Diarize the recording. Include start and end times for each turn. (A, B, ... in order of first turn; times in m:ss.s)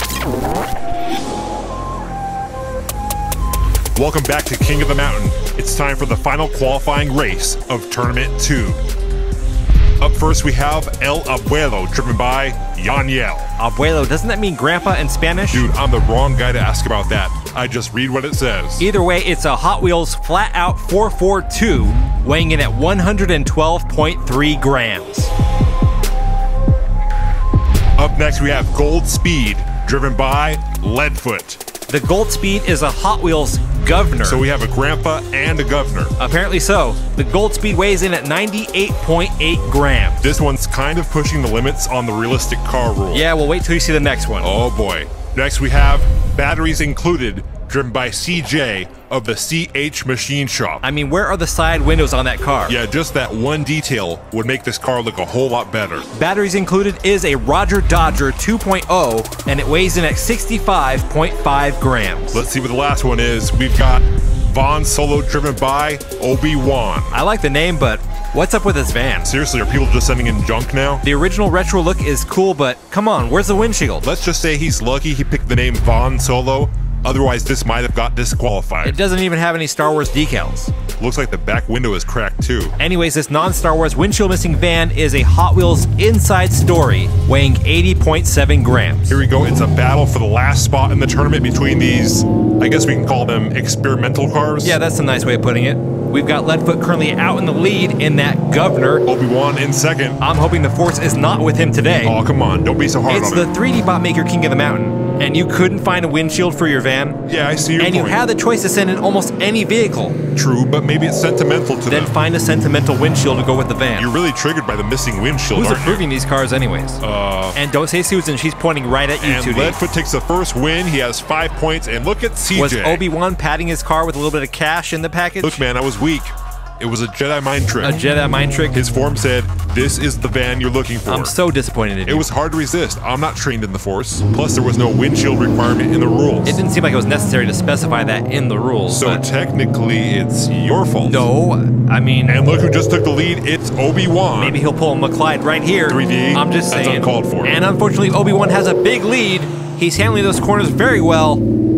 0:04.0-0:08.8 A
0:10.0-0:13.5 A
0:13.6-0:15.7 B
0:15.5-0:18.9 A
0:18.8-0:25.3 B
0:28.0-0:31.6 A
0:31.9-0:34.4 B
0:34.2-0:36.2 A
0:36.2-0:40.3 B
0:40.2-0:43.3 A
0:43.1-0:44.5 B
0:44.4-0:50.8 A
0:50.8-0:52.8 B
0:52.7-0:56.1 A
0:56.1-1:02.4 B
1:02.3-1:07.2 A
1:07.1-1:09.3 B
1:09.2-1:11.0 A
1:11.0-1:14.0 B
1:14.0-1:19.0 A
1:18.8-1:20.7 B
1:21.0-1:22.8 A
1:22.8-1:29.2 B
1:29.1-1:34.8 A
1:34.6-1:39.0 B
1:39.0-1:40.2 A
1:40.2-1:42.2 B
1:42.0-1:43.5 A
1:43.1-1:47.2 B
1:47.2-1:48.2 A
1:47.8-1:50.2 B
1:50.3-1:52.1 A
1:51.9-1:54.1 B
1:54.0-1:56.0 A
1:55.5-1:57.0 B
1:57.0-1:57.6 A
1:57.5-1:59.8 B
1:59.2-2:03.0 A
2:02.5-2:05.6 B
2:05.4-2:08.0 A
2:07.8-2:08.8 B
2:08.7-2:11.3 A
2:11.1-2:12.3 B
2:12.0-2:16.6 A
2:16.4-2:19.2 B
2:18.9-2:21.3 A
2:21.0-2:22.4 B
2:22.3-2:24.6 A
2:24.4-2:31.4 B
2:25.9-2:27.6 A